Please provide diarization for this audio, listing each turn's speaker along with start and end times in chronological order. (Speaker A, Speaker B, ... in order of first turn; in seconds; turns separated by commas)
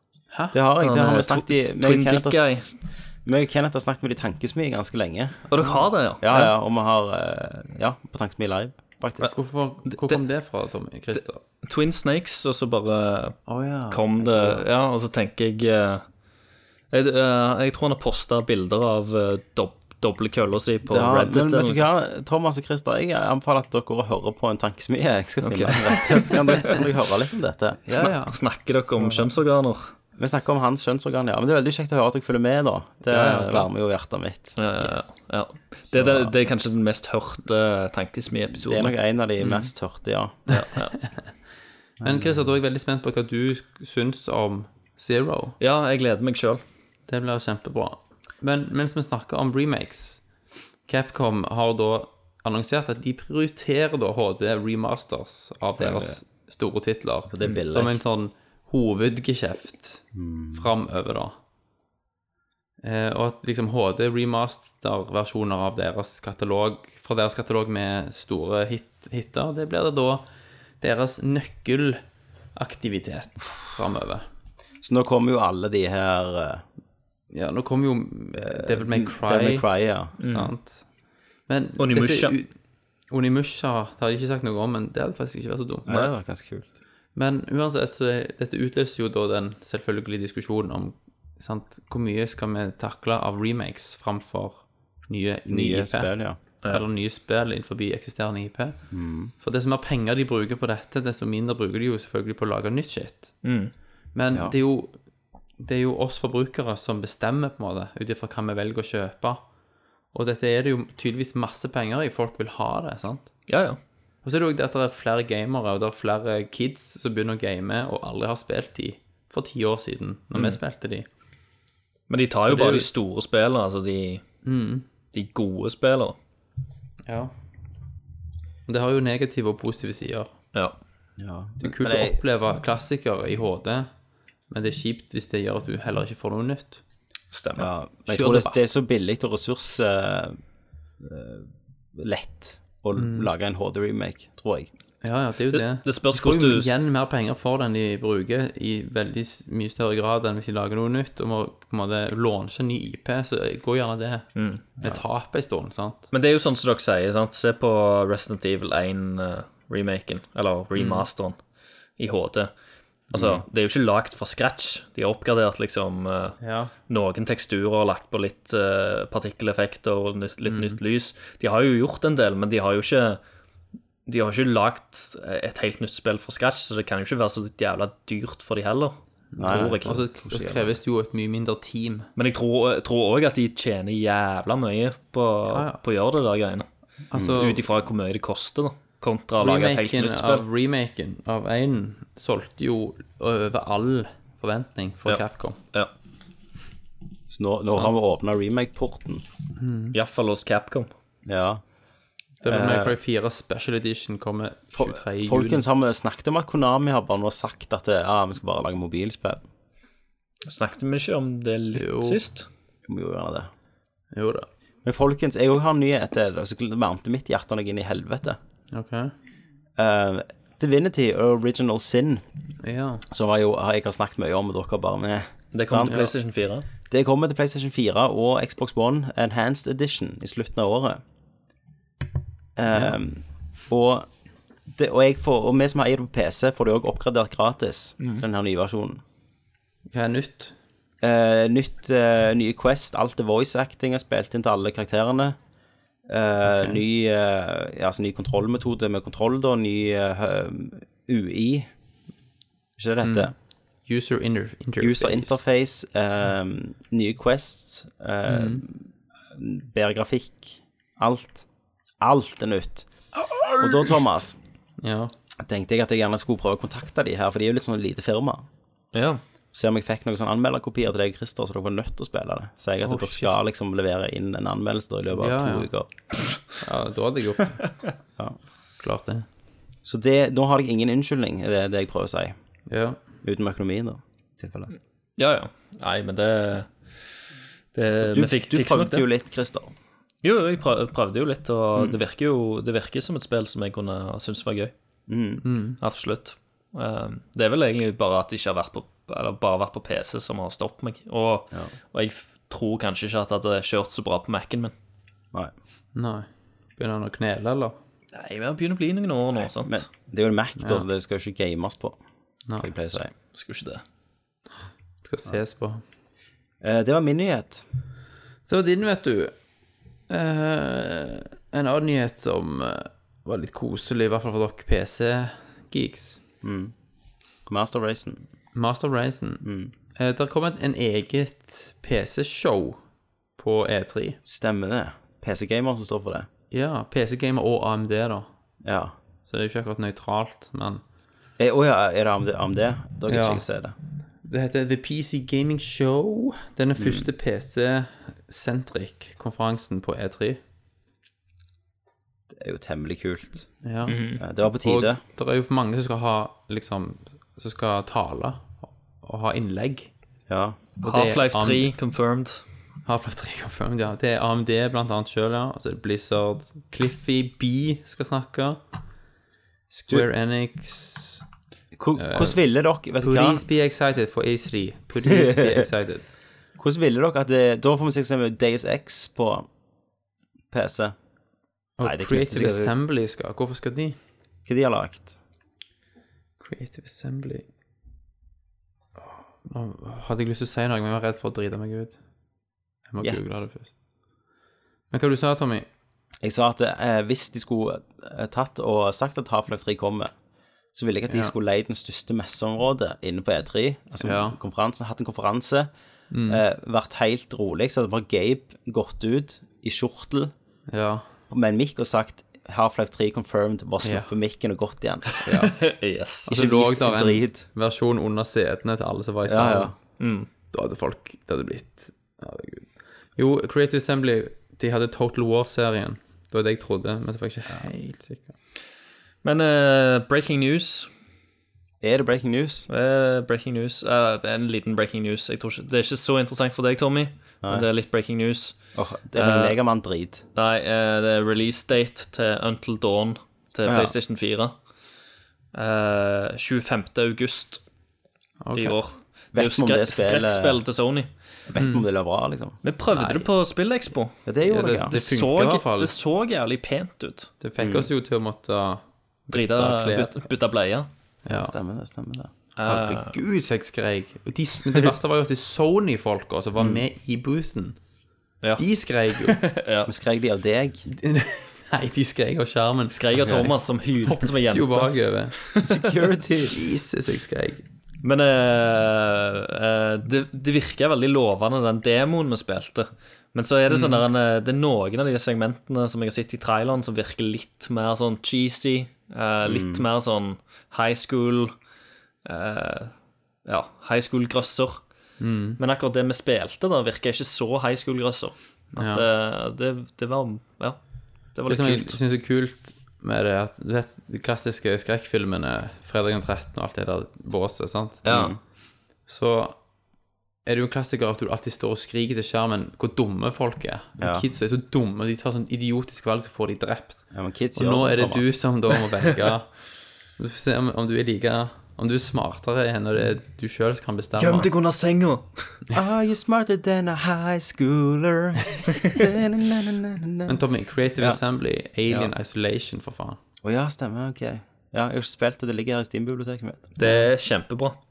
Speaker A: 0.3-0.6, Speaker B: 0.5-5.5, Speaker C: 0.8-2.7, Speaker C: 5.5-6.5, Speaker B: 6.2-9.3, Speaker A: 9.3-11.4, Speaker C: 9.9-10.2, Speaker C: 11.2-13.4, Speaker A: 13.5-14.6, Speaker C: 13.9-16.1, Speaker C: 16.9-21.9, Speaker B: 20.9-28.1, Speaker C: 25.4-26.7, Speaker A: 27.9-29.3, Speaker C: 27.9-29.9, Speaker B: 30.2-34.6, Speaker A: 33.1-33.7, Speaker C: 34.6-38.9, Speaker B: 35.9-36.4, Speaker B: 38.5-40.4, Speaker C: 40.5-41.0, Speaker B: 42.0-42.3, Speaker A: 42.0-45.6, Speaker C: 45.6-46.6, Speaker A: 47.1-50.2, Speaker A: 50.9-61.4, Speaker B: 55.8-56.2, Speaker B: 57.3-58.0, Speaker B: 60.1-60.7, Speaker A: 62.8-70.2, Speaker A: 70.8-72.0, Speaker A: 72.5-74.3, Speaker B: 74.8-76.6, Speaker A: 77.3-80.9, Speaker B: 78.4-80.1, Speaker C: 80.2-80.5, Speaker A: 81.5-82.5, Speaker C: 81.8-82.4, Speaker A: 83.1-86.1, Speaker B: 85.9-86.7, Speaker A: 87.2-98.8, Speaker B: 95.5-96.4, Speaker B: 98.9-99.3, Speaker A: 99.4-103.4, Speaker C: 103.4-103.7, Speaker A: 104.2-105.0, Speaker A: 105.6-109.4, Speaker A: 110.1-113.3, Speaker C: 113.5-113.8, Speaker A: 114.2-121.1, Speaker C: 122.1-124.2, Speaker A: 122.5-122.9, Speaker A: 124.4-124.8, Speaker C: 125.1-126.2, Speaker A: 127.1-127.3, Speaker A: 128.7-130.3, Speaker B: 131.2-132.2, Speaker A: 131.6-133.9, Speaker A: 134.5-136.8, Speaker C: 137.3-137.7, Speaker B: 137.6-140.4, Speaker A: 138.1-138.6, Speaker B: 141.0-144.7, Speaker A: 143.0-143.3, Speaker A: 145.0-156.1, Speaker C: 145.5-146.7, Speaker C: 154.4-154.7, Speaker C: 156.1-161.4, Speaker A: 160.8-161.1, Speaker C: 162.0-162.5, Speaker C: 163.1-173.2, Speaker A: 166.4-166.7, Speaker A: 170.4-170.8, Speaker C: 174.1-180.0, Speaker A: 179.3-182.1, Speaker B: 179.4-180.8, Speaker C: 182.2-186.7, Speaker A: 185.5-185.8, Speaker A: 187.1-187.7, Speaker B: 187.1-187.4, Speaker C: 187.3-190.4, Speaker A: 189.4-195.6, Speaker C: 195.1-195.9, Speaker B: 197.3-199.2, Speaker A: 199.6-199.9, Speaker C: 199.9-200.9, Speaker B: 201.3-201.6, Speaker A: 202.4-205.6, Speaker B: 202.4-203.0, Speaker B: 204.8-209.4, Speaker C: 210.5-212.5, Speaker A: 211.8-212.2, Speaker B: 212.9-213.5, Speaker A: 214.1-214.5, Speaker B: 214.8-218.4, Speaker A: 218.7-219.1, Speaker B: 219.8-222.2, Speaker A: 222.6-223.0, Speaker B: 223.1-226.1, Speaker C: 225.5-226.7, Speaker B: 226.9-231.0, Speaker B: 232.6-234.1, Speaker B: 234.7-239.0, Speaker A: 239.9-240.5, Speaker B: 241.0-245.4, Speaker B: 246.1-251.7, Speaker A: 246.5-246.8, Speaker B: 252.8-253.3, Speaker A: 253.0-255.4, Speaker B: 254.8-261.5, Speaker A: 258.3-258.6, Speaker B: 262.0-262.9, Speaker B: 263.6-264.4, Speaker A: 264.8-265.1, Speaker B: 265.4-268.5, Speaker C: 268.9-269.2, Speaker B: 269.5-275.9, Speaker A: 272.9-273.3, Speaker A: 275.1-275.7, Speaker A: 276.6-277.8, Speaker A: 278.8-279.3, Speaker B: 279.8-282.4, Speaker A: 282.7-283.0, Speaker B: 283.2-284.7, Speaker C: 285.2-286.9, Speaker C: 287.7-289.1, Speaker B: 288.0-289.7, Speaker C: 290.2-294.7, Speaker B: 295.1-295.4, Speaker A: 295.4-295.8, Speaker C: 295.8-304.7, Speaker A: 305.9-307.8, Speaker C: 308.1-309.9, Speaker B: 309.4-312.0, Speaker A: 310.6-310.9, Speaker B: 312.6-313.1, Speaker C: 313.3-313.8, Speaker A: 315.0-315.8, Speaker B: 316.6-317.6, Speaker A: 318.5-319.3, Speaker A: 320.1-326.2, Speaker B: 326.4-326.7, Speaker B: 327.5-328.2, Speaker A: 328.6-329.4, Speaker B: 329.4-329.7, Speaker A: 329.9-332.8, Speaker A: 333.4-334.2, Speaker B: 334.2-336.3, Speaker A: 336.5-338.3, Speaker B: 338.6-338.9, Speaker A: 339.2-340.8, Speaker B: 341.4-343.8, Speaker A: 343.1-343.4, Speaker A: 344.2-350.4, Speaker B: 346.8-347.1, Speaker B: 352.3-353.5, Speaker A: 353.6-359.9, Speaker C: 353.9-354.2, Speaker B: 354.2-355.0, Speaker B: 360.3-360.6, Speaker A: 360.8-361.7, Speaker C: 360.8-362.4, Speaker A: 362.9-368.6, Speaker A: 369.7-371.2, Speaker B: 371.8-373.4, Speaker A: 372.0-372.4, Speaker A: 373.0-376.1, Speaker B: 375.1-375.6, Speaker B: 376.6-379.5, Speaker B: 380.5-380.9, Speaker A: 381.8-384.0, Speaker B: 381.8-382.7, Speaker B: 384.5-385.1, Speaker A: 386.4-387.4, Speaker A: 389.1-392.0, Speaker A: 392.9-393.7, Speaker A: 394.9-395.7, Speaker B: 396.2-400.1, Speaker B: 400.7-405.7, Speaker A: 401.1-401.3, Speaker A: 404.0-404.4, Speaker A: 406.1-406.4, Speaker B: 406.3-410.3, Speaker A: 410.7-411.1, Speaker B: 411.3-415.6, Speaker A: 413.8-414.1, Speaker C: 415.3-416.3, Speaker B: 416.3-417.4, Speaker A: 416.3-419.7, Speaker B: 419.3-419.7, Speaker C: 420.0-420.3, Speaker A: 420.5-428.3, Speaker C: 429.2-430.9, Speaker B: 431.8-432.7, Speaker C: 432.7-438.6, Speaker B: 438.8-440.2, Speaker C: 439.1-439.6, Speaker C: 440.4-444.6, Speaker B: 443.6-443.9, Speaker C: 445.5-447.6, Speaker A: 448.4-448.8, Speaker C: 448.6-451.1, Speaker B: 449.3-450.6, Speaker B: 451.5-452.6, Speaker A: 451.6-451.8, Speaker C: 452.6-454.2, Speaker A: 452.9-453.3, Speaker B: 454.3-454.9, Speaker A: 454.4-455.9, Speaker C: 454.9-457.3, Speaker A: 457.4-460.2, Speaker B: 457.6-457.9, Speaker C: 459.3-460.9, Speaker A: 461.2-461.5, Speaker B: 461.3-462.3, Speaker C: 462.6-463.1, Speaker A: 462.7-467.8, Speaker B: 466.6-466.8, Speaker A: 468.6-469.4, Speaker C: 469.2-469.9, Speaker B: 469.9-470.9, Speaker A: 470.9-473.4, Speaker C: 472.9-474.9, Speaker A: 474.1-475.5, Speaker B: 475.6-476.6, Speaker A: 476.5-477.6, Speaker C: 478.0-491.5, Speaker A: 483.7-484.0, Speaker B: 489.4-489.9, Speaker C: 492.2-492.9, Speaker C: 493.4-494.8, Speaker A: 495.2-495.6, Speaker C: 495.6-500.8, Speaker A: 498.8-499.1, Speaker C: 501.3-502.0, Speaker A: 501.5-508.1, Speaker C: 508.1-508.3, Speaker B: 508.1-508.4, Speaker A: 509.1-509.6, Speaker A: 510.4-524.5, Speaker B: 514.0-514.2, Speaker B: 517.1-518.4, Speaker C: 524.2-525.5, Speaker B: 525.7-530.4, Speaker A: 530.3-533.2, Speaker B: 533.4-536.7, Speaker C: 536.8-537.8, Speaker A: 536.8-537.1